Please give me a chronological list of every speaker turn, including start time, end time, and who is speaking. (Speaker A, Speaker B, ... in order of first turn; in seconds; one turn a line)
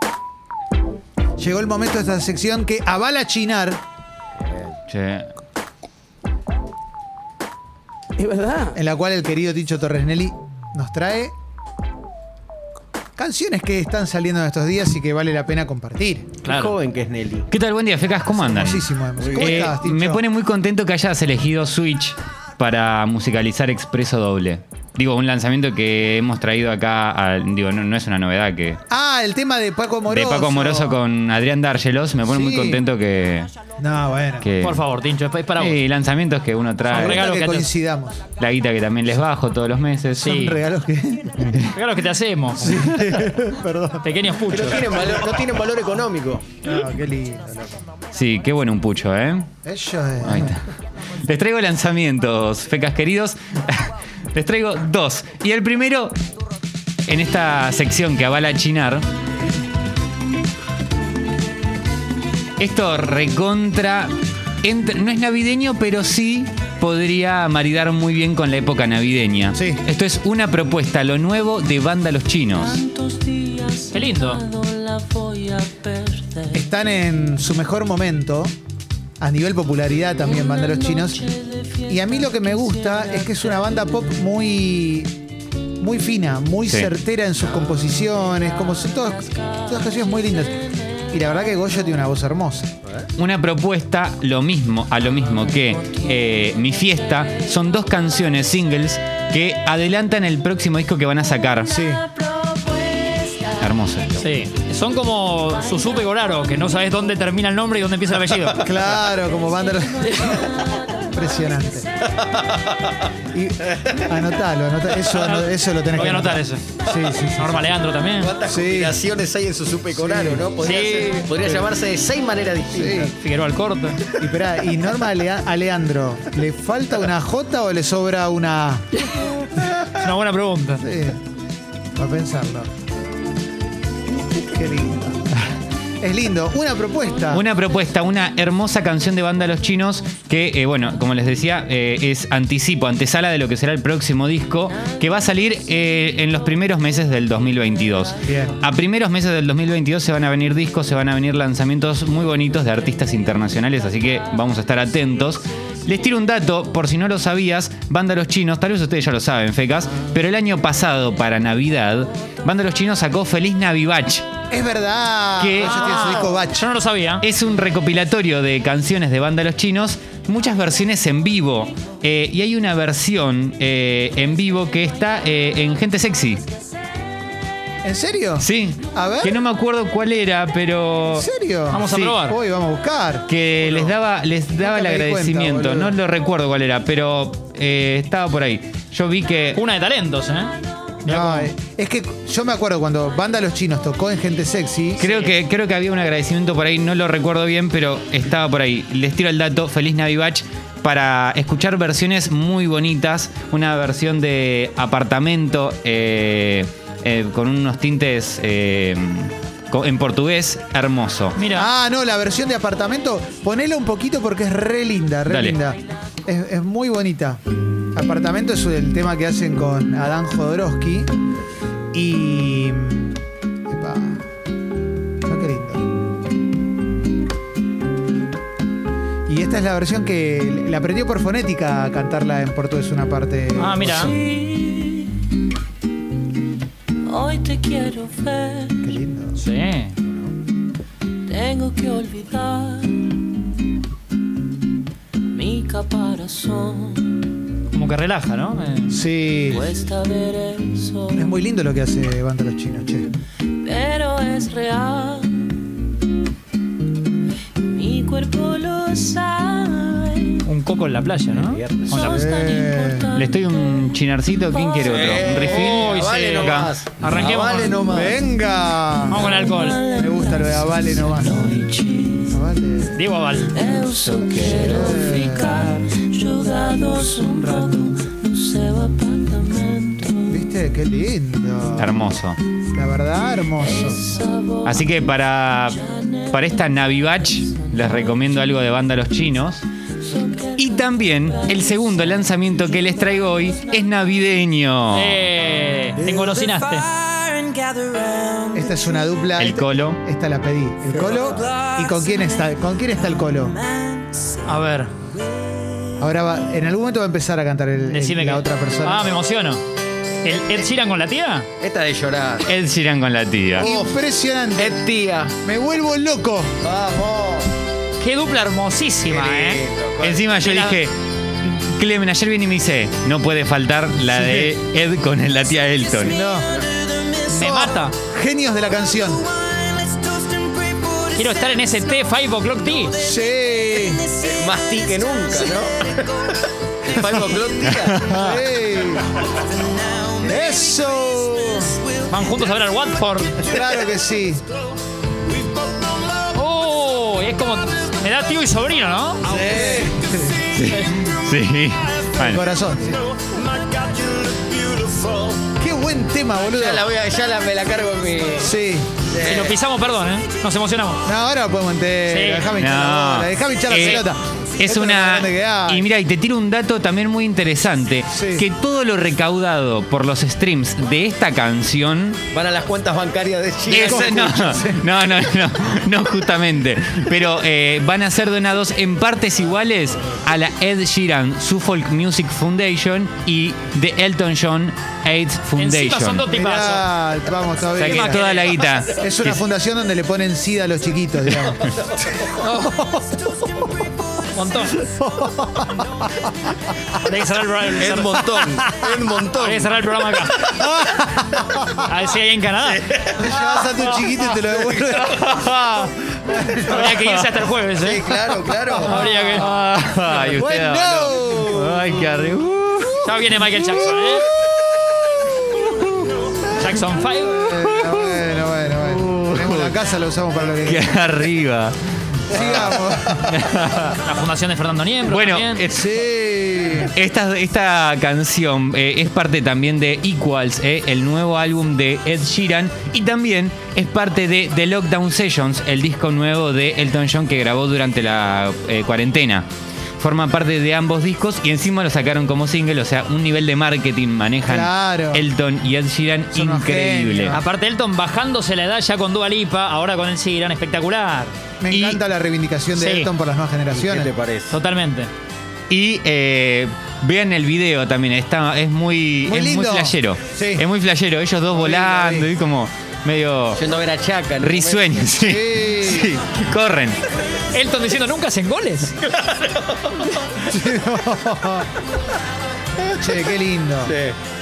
Speaker A: 1.4-3.8
Speaker B: 4.9-5.3
Speaker A: 8.7-11.3
Speaker A: 13.2-16.3
Speaker C: 16.4-16.8
Speaker D: 16.4-17.5
Speaker B: 17.5-28.8
Speaker A: 18.4-20.2
Speaker D: 19.2-19.6
Speaker A: 28.9-31.0
Speaker B: 30.1-33.5
Speaker A: 32.3-32.8
Speaker A: 33.8-34.5
Speaker B: 34.4-34.8
Speaker C: 34.6-35.8
Speaker B: 35.6-37.2
Speaker C: 36.9-37.7
Speaker A: 36.9-38.3
Speaker B: 38.4-40.3
Speaker A: 40.2-41.5
Speaker C: 40.2-40.6
Speaker B: 41.4-41.8
Speaker C: 41.7-42.9
Speaker A: 42.6-44.1
Speaker C: 44.0-44.9
Speaker D: 44.5-46.5
Speaker A: 44.7-45.2
Speaker A: 46.6-47.8
Speaker B: 48.1-49.5
Speaker A: 49.6-50.5
Speaker B: 50.2-50.6
Speaker B: 51.2-56.1
Speaker B: 57.0-59.0
Speaker B: 62.6-72.8
Speaker A: 69.5-69.8
Speaker E: 72.7-76.5
Speaker C: 73.9-74.4
Speaker A: 76.5-78.5
Speaker A: 79.2-85.1
Speaker E: 82.3-82.7
Speaker A: 85.8-92.7
Speaker B: 93.2-101.8
Speaker A: 101.7-102.1
Speaker E: 102.4-103.4
Speaker B: 103.6-104.3
Speaker C: 104.2-108.7
Speaker A: 108.6-111.9
Speaker D: 112.2-113.0
Speaker A: 113.3-117.8
Speaker C: 115.1-116.7
Speaker C: 117.4-118.3
Speaker D: 118.2-123.1
Speaker A: 118.5-119.0
Speaker A: 120.0-120.5
Speaker C: 120.6-121.2
Speaker A: 122.7-123.1
Speaker C: 123.1-124.0
Speaker A: 124.2-129.9
Speaker C: 129.9-130.8
Speaker A: 130.8-131.2
Speaker A: 131.9-132.7
Speaker A: 134.3-135.4
Speaker A: 136.0-137.4
Speaker B: 137.3-164.2
Speaker A: 148.2-148.6
Speaker A: 164.5-166.7
Speaker B: 165.4-165.8
Speaker C: 165.8-167.2
Speaker B: 167.2-176.4
Speaker A: 177.8-179.3
Speaker B: 178.4-181.3
Speaker A: 181.2-183.9
Speaker C: 181.7-182.4
Speaker B: 181.8-182.2
Speaker B: 183.3-189.6
Speaker A: 184.6-186.0
Speaker C: 189.5-191.5
Speaker A: 191.0-195.1
Speaker B: 195.0-211.4
Speaker C: 211.3-211.7
Speaker A: 211.5-217.4
Speaker B: 215.2-215.6
Speaker A: 217.9-221.1
Speaker A: 221.9-224.3
Speaker A: 225.2-225.9
Speaker A: 229.3-234.2
Speaker C: 233.6-234.1
Speaker E: 234.2-235.2
Speaker E: 237.0-238.8
Speaker A: 238.8-239.4
Speaker C: 239.4-239.9
Speaker E: 241.2-243.2
Speaker E: 245.3-247.2
Speaker C: 247.7-249.0
Speaker A: 248.9-249.7
Speaker E: 249.5-251.3
Speaker A: 251.1-253.1
Speaker E: 253.6-255.6
Speaker E: 257.6-260.4
Speaker C: 260.4-262.1
Speaker D: 261.3-262.1
Speaker E: 261.9-263.8
Speaker A: 261.9-263.1
Speaker B: 263.1-266.7
Speaker D: 264.8-268.2
Speaker E: 264.8-265.7
Speaker C: 265.7-267.8
Speaker A: 267.9-271.7
Speaker C: 269.1-269.8
Speaker E: 269.3-272.2
Speaker A: 272.2-273.1
Speaker C: 272.9-273.6
Speaker E: 273.5-280.3
Speaker A: 274.4-275.8
Speaker A: 276.7-277.9
Speaker A: 280.2-281.9
Speaker B: 281.8-282.4
Speaker A: 282.7-284.1
Speaker E: 283.8-284.6
Speaker B: 284.6-289.6
Speaker E: 290.1-290.9
Speaker B: 290.6-295.2
Speaker C: 294.9-296.9
Speaker A: 298.5-303.6
Speaker B: 299.4-300.0
Speaker C: 304.4-304.9
Speaker A: 306.0-309.1
Speaker C: 307.9-309.6
Speaker C: 310.2-311.5
Speaker D: 311.6-312.5
Speaker B: 312.4-313.7
Speaker D: 313.6-313.9
Speaker A: 313.6-314.8
Speaker D: 314.6-315.3
Speaker A: 315.4-316.5
Speaker D: 316.6-317.5
Speaker C: 318.0-319.6
Speaker D: 319.1-320.3
Speaker B: 320.0-326.2
Speaker C: 320.4-320.8
Speaker A: 324.1-324.5
Speaker A: 326.0-326.5
Speaker C: 327.1-327.9
Speaker A: 327.4-329.2
Speaker C: 331.0-333.0
Speaker A: 333.0-334.1
Speaker D: 334.1-338.1
Speaker A: 338.1-339.1
Speaker B: 338.1-338.4
Speaker A: 340.2-341.8
Speaker C: 342.1-343.4
Speaker A: 343.4-344.4
Speaker C: 346.2-349.2
Speaker D: 349.2-349.9
Speaker A: 349.3-350.5
Speaker B: 350.5-352.4
Speaker A: 352.2-353.0
Speaker D: 353.8-355.4
Speaker A: 355.6-356.9
Speaker D: 356.4-358.5
Speaker A: 358.4-358.9
Speaker D: 359.1-359.6
Speaker C: 359.2-361.0
Speaker A: 361.1-365.9
Speaker C: 362.1-362.6
Speaker B: 362.6-364.1
Speaker B: 364.6-372.2
Speaker A: 368.1-368.5
Speaker D: 372.3-374.6
Speaker B: 373.7-386.2
Speaker A: 373.7-374.8
Speaker C: 385.6-386.9
Speaker A: 386.3-388.2
Speaker B: 387.8-389.4
Speaker C: 387.8-388.5
Speaker A: 389.0-391.8
Speaker D: 391.7-392.4
Speaker A: 392.4-392.6
Speaker C: 394.3-394.8
Speaker A: 394.8-396.2
Speaker C: 397.0-398.2
Speaker D: 397.7-399.8
Speaker C: 399.3-400.5
Speaker A: 400.3-401.9
Speaker C: 401.7-402.8
Speaker D: 402.6-403.9
Speaker A: 403.2-405.5
Speaker B: 404.9-405.8
Speaker A: 406.1-406.9
Speaker C: 406.6-408.1
Speaker B: 406.7-407.3
Speaker D: 407.7-409.1
Speaker A: 408.6-408.9
Speaker C: 408.8-409.4
Speaker B: 408.9-413.8
Speaker A: 410.1-411.9
Speaker C: 413.0-414.2
Speaker B: 415.2-416.1
Speaker A: 416.5-420.9
Speaker C: 416.5-417.4
Speaker B: 417.4-419.8
Speaker B: 420.6-421.8
Speaker A: 422.3-423.4
Speaker B: 422.3-424.0
Speaker C: 424.0-425.6
Speaker B: 425.1-426.0
Speaker A: 425.7-426.9
Speaker B: 426.9-439.4
Speaker B: 440.0-447.4
Speaker A: 444.4-445.2
Speaker A: 446.3-447.4
Speaker C: 447.3-452.0
Speaker A: 451.6-454.1
Speaker C: 452.8-453.1
Speaker D: 453.7-454.6
Speaker C: 454.5-455.1
Speaker B: 455.7-463.6
Speaker A: 459.3-460.6
Speaker A: 461.5-462.3
Speaker D: 463.6-465.1
Speaker B: 464.4-467.0
Speaker A: 465.1-466.1
Speaker C: 467.5-469.0
Speaker D: 469.1-470.1
Speaker A: 470.4-471.7
Speaker A: 472.9-474.0
Speaker D: 473.8-474.1